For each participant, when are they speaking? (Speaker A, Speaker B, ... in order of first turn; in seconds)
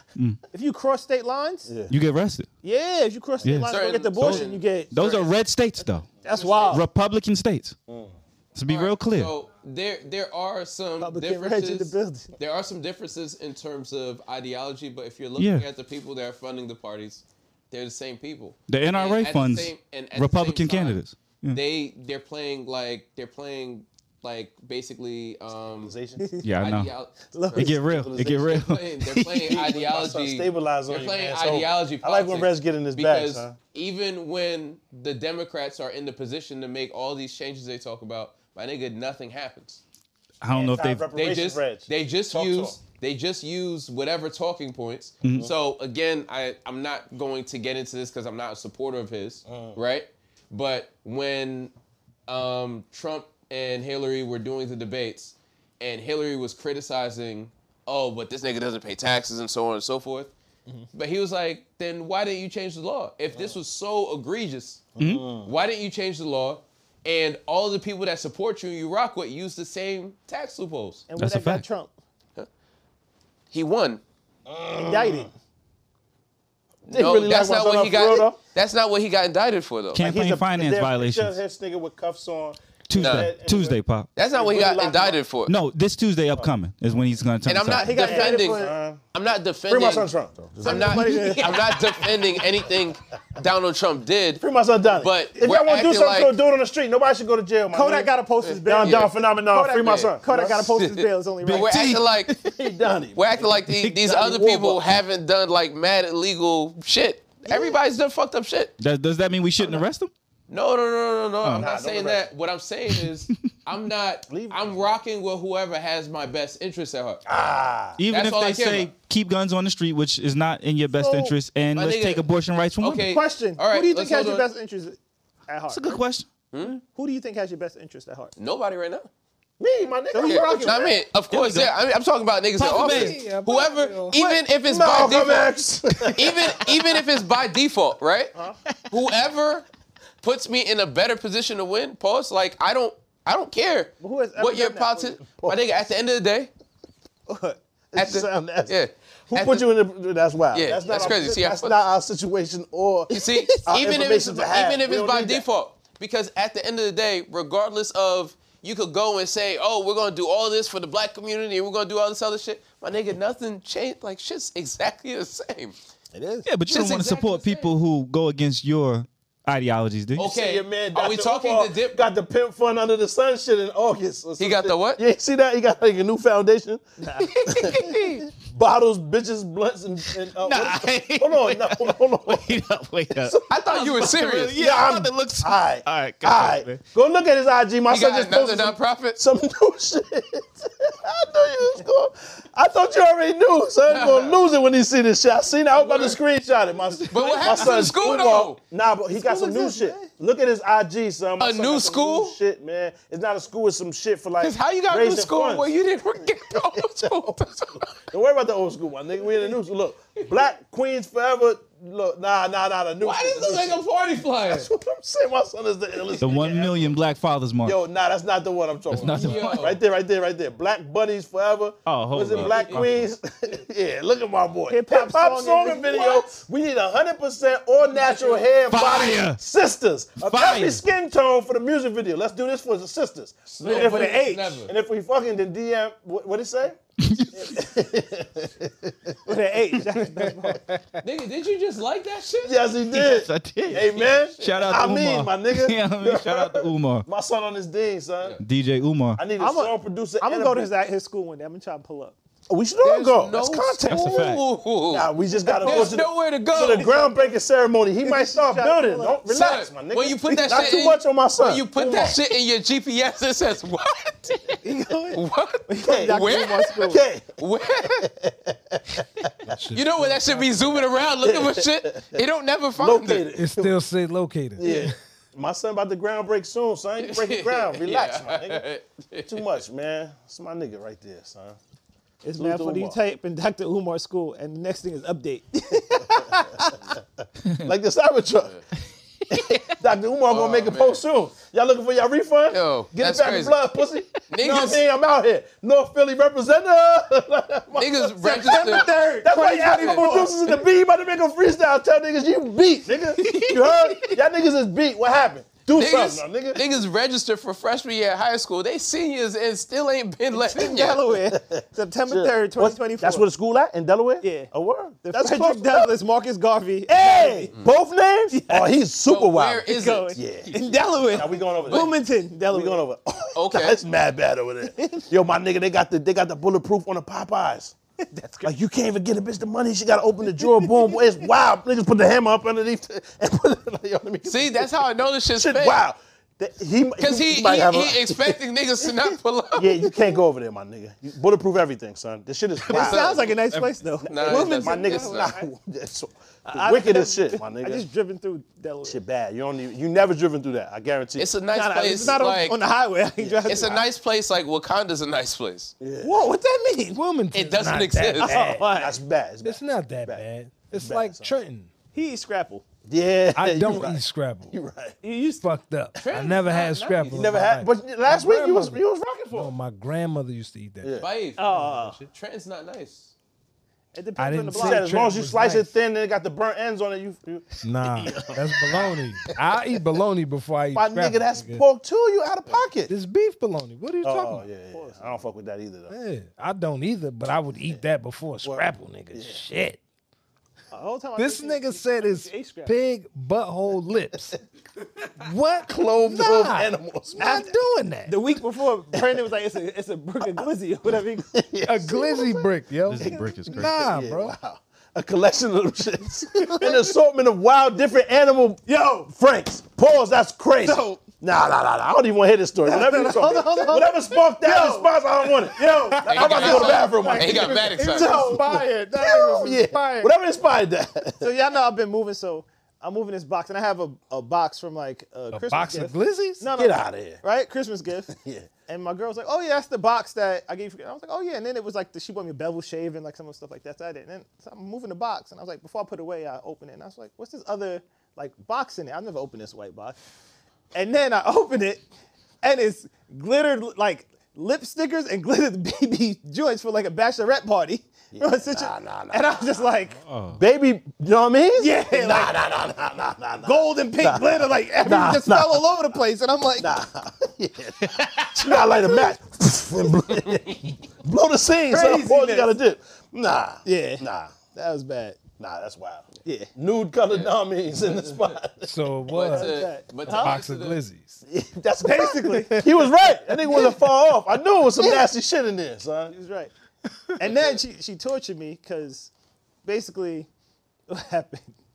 Speaker A: 0.5-1.8, 2.6-5.2, 6.2-6.9, 11.0-12.3, 26.2-26.5, 27.3-27.8, 71.1-71.9, 74.8-75.3, 87.7-88.7, 90.6-91.9, 97.7-101.9, 107.5-107.8, 120.9-121.3, 123.0-126.0, 126.8-128.3, 130.1-130.9, 144.0-145.2, 147.3-147.6, 153.1-153.9, 166.1-166.5, 177.0-177.4, 199.2-200.1, 224.7-226.3, 233.7-234.6, 239.3-240.6, 249.4-252.2, 255.6-256.0, 256.6-257.2, 258.0-259.2, 264.6-267.0, 282.2-286.8, 298.2-300.5, 310.3-313.2, 314.2-314.5, 315.0-317.5, 318.3-318.7, 319.7-322.8, 324.7-325.0, 328.0-328.5, 330.4-331.0, 342.7-345.5, 346.5-349.0, 351.5-353.9, 356.0-357.0, 358.2-359.0, 361.9-362.6, 365.0-365.5, 371.4-372.0, 373.9-375.0, 384.7-385.2, 390.7-392.8, 397.2-397.5, 398.1-401.3, 406.3-406.9, 408.7-409.1, 410.6-411.0, 412.6-420.1, 421.2-428.1, 428.7-440.0, 440.7-441.9, 442.4-450.0, 451.6-452.3, 453.4-456.7, 458.4-459.1, 461.7-462.5, 463.6-465.2, 469.3-470.4, 471.8-472.7, 473.4-473.8, 474.8-475.0, 476.1-476.5, 477.2-479.1, 479.6-480.3, 480.9-481.5
Speaker B: 1.7-1.9, 7.9-8.1, 25.8-26.2, 27.7-28.7, 29.4-33.6, 40.5-42.8, 49.5-49.8, 65.0-65.5, 74.5-75.3, 76.9-78.4, 80.0-85.2, 88.0-89.0, 89.7-91.8, 94.4-98.1, 98.7-100.7, 102.5-104.9, 111.5-112.3, 114.3-114.9, 117.3-118.0, 129.6-131.0, 134.6-136.7, 145.3-145.7, 147.9-148.8, 149.3-155.5, 170.2-176.8, 177.5-205.7, 206.5-213.8, 214.4-217.0, 217.6-236.8, 237.3-239.2, 242.4-248.4, 249.2-250.7, 252.5-262.2, 265.8-269.3, 271.2-272.2, 272.8-273.8, 274.6-278.6, 279.2-281.6, 282.4-283.0, 286.1-286.4, 287.6-288.6, 289.3-306.6, 311.3-315.9, 316.9-321.9, 322.5-327.8, 328.4-334.8, 335.3-338.4, 339.6-343.3, 344.1-347.9, 348.9-351.3, 353.2-353.9, 355.8-356.2, 358.4-361.4, 362.9-365.0, 367.1-369.5, 370.8-371.1, 374.6-379.5, 380.7-382.9, 384.0-385.9, 388.4-389.4, 395.6-397.4, 398.9-399.2, 401.3-421.3, 426.6-427.2, 428.1-428.5, 448.1-449.7, 450.4-456.0, 456.6-464.3, 465.4-468.7, 471.3-476.1
Speaker C: 1.9-2.5, 3.4-6.2, 6.7-7.8, 8.6-9.3, 15.4-15.7, 18.7-21.6, 26.4-26.9, 27.6-29.5, 40.4-41.1, 45.2-45.5, 65.0-65.3, 71.2-71.7, 79.9-81.4, 82.9-84.1, 85.5-88.0, 101.5-102.5, 108.8-110.1, 118.0-123.0, 125.7-126.3, 131.3-131.7, 132.6-133.3, 166.5-170.3, 177.4-178.3, 180.4-183.3, 184.0-186.8, 216.2-217.8, 218.9-219.7, 221.9-223.1, 228.7-229.4, 230.2-230.8, 237.0-237.6, 242.9-247.1, 248.4-249.2, 253.9-254.4, 289.3-289.6, 402.9-403.9, 450.0-450.4
Speaker D: 3.7-5.3, 6.2-6.8, 8.7-21.0, 21.5-25.9, 26.6-27.7, 28.2-39.8, 41.1-51.7, 52.3-60.3, 60.9-64.9, 65.4-71.0, 73.5-74.0, 76.9-80.1, 83.0-83.3, 84.2-85.5, 87.5-90.1, 90.6-94.4, 95.0-96.3, 98.4-99.2, 99.8-100.1, 100.8-102.4, 103.2-108.7, 110.5-117.2, 118.1-118.9, 121.8-122.2, 122.8-124.5, 128.4-129.1, 130.2-135.5, 136.2-138.3, 138.9-139.7, 140.2-146.5, 148.0-149.7, 150.5-151.8, 153.1-165.8, 166.7-167.7, 170.2-172.0, 174.4-175.0, 183.5-184.6, 187.9-189.2, 193.9-194.4, 195.8-196.2, 197.1-198.6, 201.4-202.4, 204.4-207.8, 213.0-214.7, 219.0-219.8, 222.3-222.9, 227.9-228.5, 233.6-234.7, 241.0-242.6, 252.8-255.1, 255.6-256.9, 259.3-266.9, 267.4-268.1, 269.7-273.3, 277.0-279.6, 290.3-291.0, 292.5-293.6, 294.3-294.8, 297.7-298.9, 299.8-300.2, 305.7-311.1, 319.1-320.2, 321.7-321.9, 323.4-323.8, 334.3-335.8, 337.0-339.7, 342.6-345.4, 351.2-352.6, 353.5-355.7, 357.3-358.4, 366.0-367.3, 371.0-373.1, 416.1-418.4, 469.1-470.8
Speaker E: 132.6-134.2, 269.5-270.8, 273.4-274.7, 356.9-358.7, 359.4-361.7, 363.4-364.5, 365.4-368.8, 369.3-371.0, 374.2-375.7, 377.6-381.6, 382.9-384.5, 385.9-389.8, 391.2-394.4, 395.2-398.2, 401.7-404.4, 425.3-426.5, 468.6-471.2